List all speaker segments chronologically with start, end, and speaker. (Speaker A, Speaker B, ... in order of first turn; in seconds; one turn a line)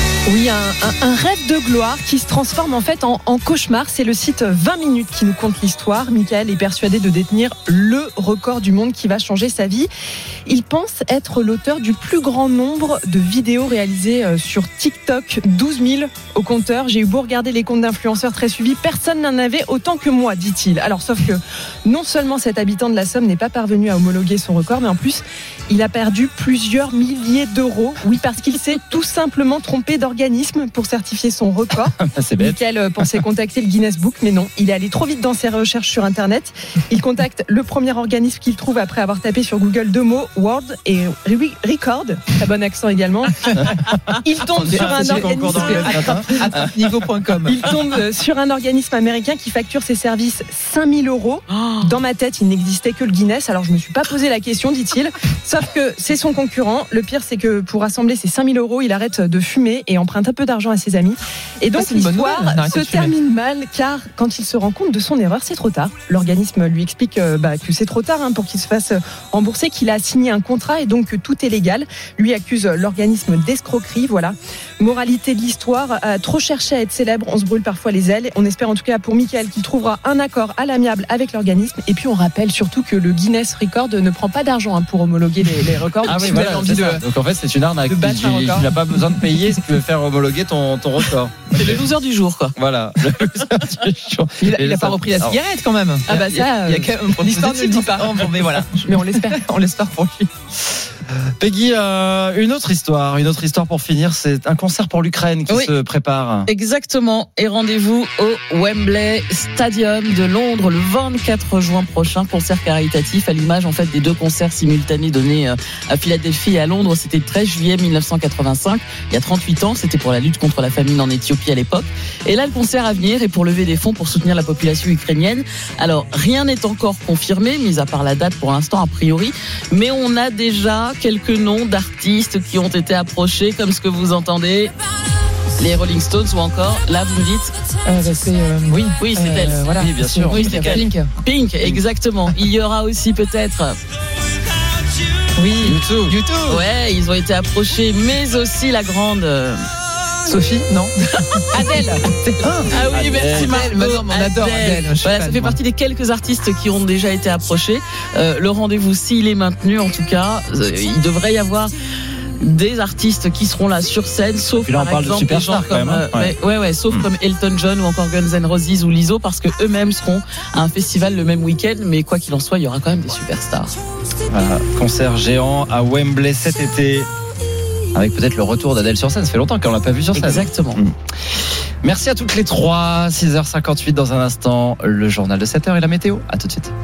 Speaker A: 0.3-9.9
Speaker A: 10.5-43.3
Speaker B: 32.0-32.5
Speaker A: 44.3-46.0
Speaker B: 44.6-46.6
Speaker C: 44.7-47.6
Speaker A: 47.5-87.0
Speaker D: 51.5-51.9
Speaker C: 61.8-63.1
Speaker C: 86.0-86.9
Speaker B: 86.0-91.8
Speaker C: 87.9-88.6
Speaker D: 91.6-92.5
Speaker B: 92.6-95.4
Speaker C: 94.4-100.1
Speaker A: 96.1-100.0
Speaker B: 101.4-106.5
Speaker D: 106.5-134.7
Speaker D: 135.6-137.5
Speaker C: 137.9-140.9
Speaker D: 139.0-139.8
Speaker B: 139.8-140.9
Speaker D: 140.3-143.8
Speaker B: 141.6-141.9
Speaker C: 145.4-146.6
Speaker B: 145.6-146.2
Speaker D: 146.5-149.6
Speaker C: 150.3-150.9
Speaker C: 151.5-155.6
Speaker D: 152.7-161.7
Speaker B: 152.8-153.6
Speaker D: 162.4-173.7
Speaker B: 164.6-166.3
Speaker B: 174.3-177.1
Speaker B: 177.9-186.7
Speaker D: 180.1-180.8